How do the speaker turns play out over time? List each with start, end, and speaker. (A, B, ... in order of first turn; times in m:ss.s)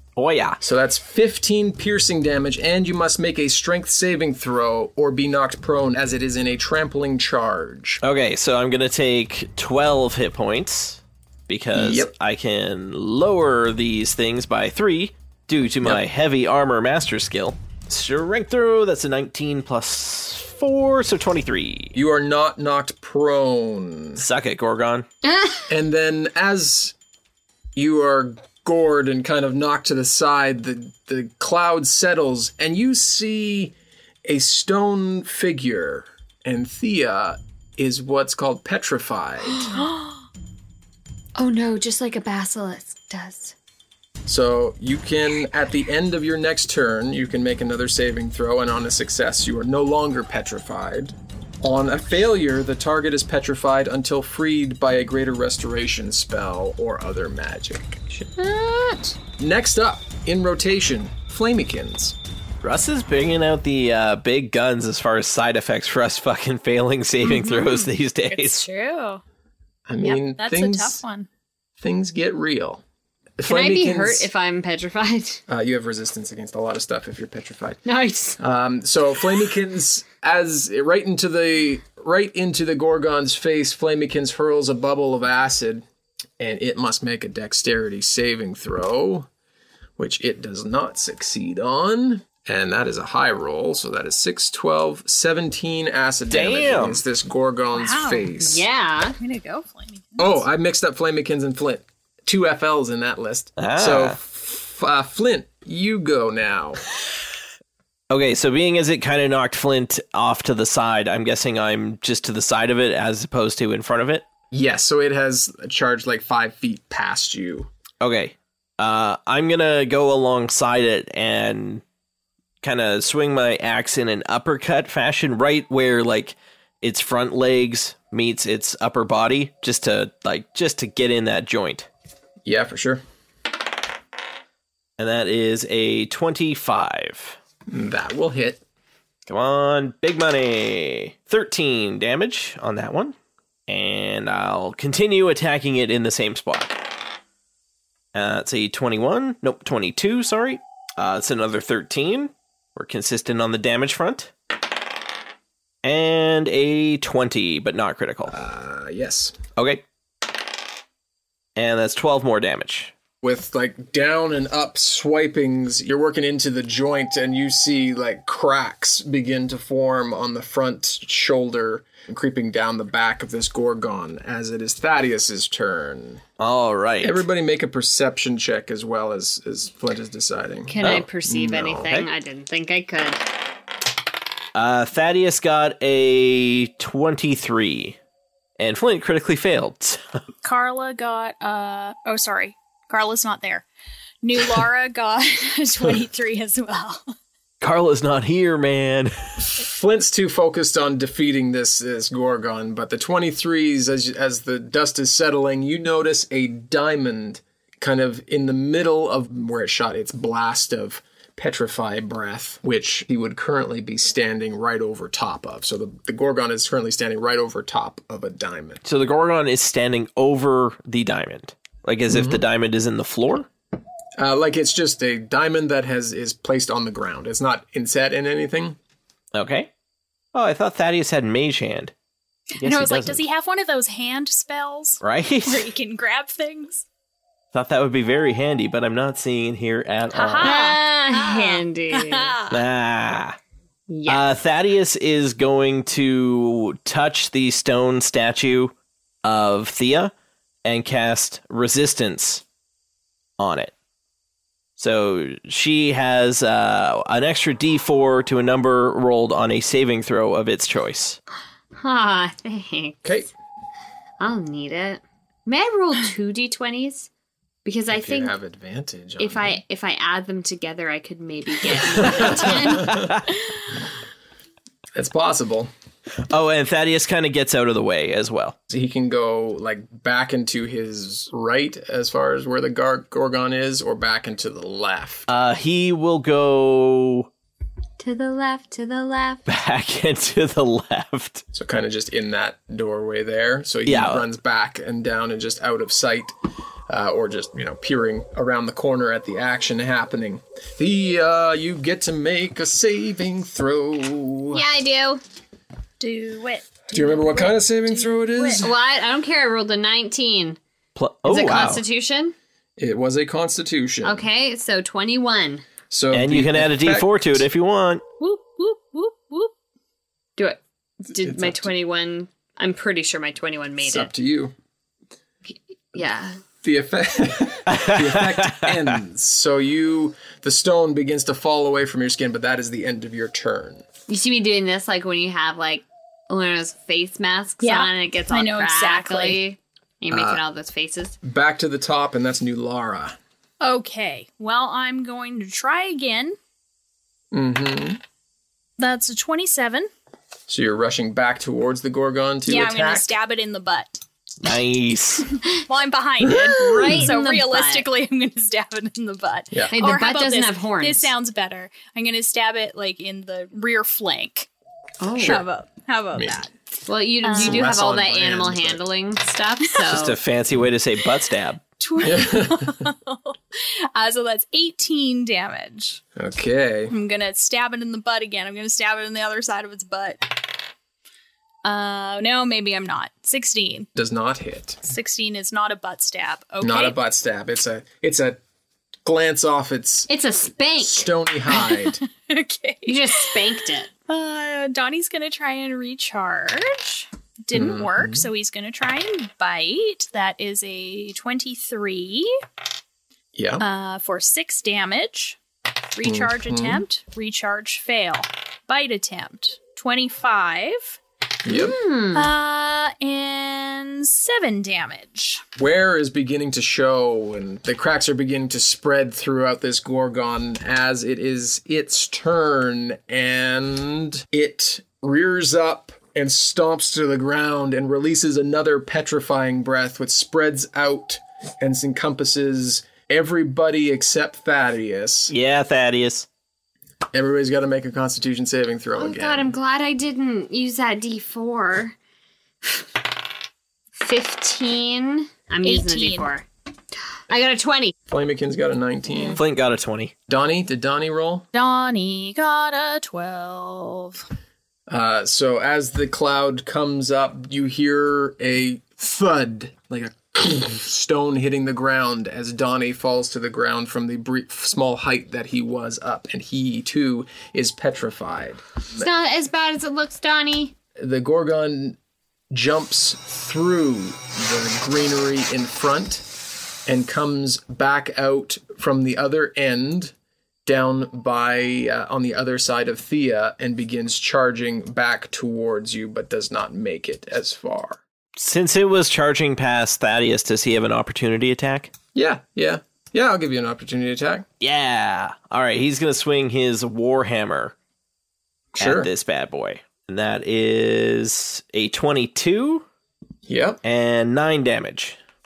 0:00.2-0:00.6 A
0:00.6-0:08.0 B
0:08.0-0:21.9 A
0:11.7-0:12.1 B
0:21.9-0:24.2 B
0:24.2-0:25.0 A
0:25.2-0:25.7 C
0:25.7-0:26.9 B
0:27.7-0:33.7 B
0:34.2-0:39.8 B
0:41.4-0:43.5 C
0:44.2-0:58.1 B
0:58.4-0:59.1 C
0:59.4-1:02.2 B
1:02.6-1:08.6 A
1:07.2-1:07.7 D
1:08.3-1:09.2 D
1:09.9-1:11.0 B
1:10.0-1:11.3 D
1:11.8-1:12.8 B
1:13.4-1:14.3 B
1:13.4-1:15.4 C
1:15.5-1:17.8 B
1:17.8-1:18.4 C
1:18.4-1:25.8 B
1:26.4-1:29.3 B
1:30.0-1:38.6 B
1:36.3-1:37.0 A
1:37.7-1:38.3 D
1:38.4-1:39.2 C
1:39.2-1:40.4 D
1:40.2-1:46.8 B
1:43.6-1:44.2 A
1:48.1-1:54.2 A
1:54.5-1:57.7 B
1:58.0-2:01.8 A
2:02.6-2:11.9 A
2:12.4-2:13.0 B
2:15.0-2:17.4 A
2:17.7-2:18.6 B
2:19.3-2:23.2 A
2:23.7-2:26.8 A
2:28.1-2:34.3 A
2:35.8-2:38.4 A
2:38.3-2:39.4 B
2:39.6-2:39.8 A
2:41.6-2:42.9 A
2:43.2-2:56.2 B
2:56.4-2:57.2 A
2:57.0-3:00.7 B
3:00.7-3:03.2 C
3:00.8-3:01.1 A
3:01.3-3:01.8 B
3:01.7-3:02.1 A
3:04.5-3:08.0 A
3:08.6-3:10.2 A
3:10.4-3:13.6 D
3:14.2-3:17.1 D
3:17.6-3:19.5 A
3:19.5-3:38.8 B
3:38.8-3:43.5 A
3:42.1-3:42.4 B
3:44.2-3:48.8 B
3:49.3-3:49.7 A
3:50.3-3:51.9 A
3:52.6-3:53.2 A
3:52.6-3:56.8 D
3:55.0-3:55.7 A
3:57.5-4:00.6 A
4:00.1-4:02.6 D
4:00.4-4:02.3 C
4:02.5-4:03.4 A
4:03.9-4:04.3 C
4:04.1-4:10.1 A
4:10.6-4:12.4 A
4:13.4-4:13.7 A
4:14.8-4:21.2 A
4:21.8-4:23.1 C
4:23.0-4:23.3 B
4:24.2-4:27.1 C
4:27.6-4:28.4 C
4:27.9-4:29.6 B
4:29.2-4:33.1 C
4:31.6-4:33.1 B
4:32.9-4:33.1 A
4:34.9-4:35.7 B
4:36.3-4:38.6 A
4:38.7-4:45.3 B
4:45.3-4:47.3 A
4:48.0-4:49.4 C
4:49.5-4:51.4 A
4:51.5-4:56.3 B
4:53.8-4:54.2 A
4:56.9-5:04.6 B
5:04.5-5:05.2 C
5:06.0-5:08.7 D
5:06.9-5:08.7 B
5:08.6-5:10.6 C
5:11.0-5:11.8 A
5:11.2-5:12.3 C
5:12.8-5:14.2 B
5:14.0-5:15.6 C
5:15.9-5:17.4 B
5:16.1-5:18.0 A
5:18.2-5:19.5 D
5:20.4-5:24.1 C
5:21.2-5:21.7 B
5:23.8-5:24.5 B
5:25.5-5:26.4 C
5:26.6-5:33.8 B
5:27.7-5:28.7 A
5:34.1-5:41.2 C
5:37.6-5:39.4 D
5:40.1-5:40.4 B
5:41.2-5:43.2 B
5:43.6-5:46.4 D
5:47.3-5:48.0 B
5:48.8-5:49.9 D
5:50.5-5:53.2 B
5:52.5-5:54.0 D
5:54.4-5:55.3 A
5:55.5-6:04.5 D
5:56.3-5:57.1 B
5:56.6-5:57.9 C
5:59.7-6:01.1 C
6:05.0-6:05.4 C
6:05.2-6:05.4 B
6:05.2-6:06.5 D
6:06.1-6:06.4 B
6:06.8-6:10.2 C
6:07.2-6:07.6 D
6:07.3-6:08.8 B
6:09.9-6:11.6 A
6:11.8-6:16.0 D
6:12.0-6:12.9 B
6:16.2-6:16.9 B
6:16.9-6:20.4 D
6:21.6-6:23.9 D
6:24.0-6:24.8 B
6:24.8-6:27.0 D
6:26.6-6:28.4 B
6:29.0-6:30.1 B
6:30.1-6:31.1 C
6:30.8-6:32.0 B
6:31.6-6:33.4 D
6:32.8-6:33.9 C
6:34.1-6:42.3 D
6:37.5-6:38.2 B
6:43.3-6:43.6 B
6:43.6-6:45.4 D
6:45.9-6:51.0 D
6:46.0-6:46.8 B
6:51.4-6:51.7 B
6:51.5-6:52.3 C
6:52.1-6:55.4 D
6:55.6-7:15.3 B
7:15.3-7:16.3 A
7:17.1-7:19.5 B
7:19.0-7:22.0 C
7:24.0-7:26.4 C
7:25.6-7:26.3 D
7:27.3-7:27.9 C
7:28.1-7:29.4 B
7:29.3-7:30.1 A
7:30.3-7:31.4 B
7:31.5-7:34.2 D
7:34.9-7:49.0 B
7:48.9-7:50.7 C
7:51.0-7:52.0 B
7:52.5-7:56.3 B
7:56.8-8:00.1 B
8:00.6-8:08.0 B
8:08.4-8:11.9 A
8:12.1-8:14.4 B
8:14.6-8:17.7 A
8:18.7-8:19.1 B
8:18.8-8:22.8 A
8:23.5-8:23.8 B
8:23.8-8:25.2 A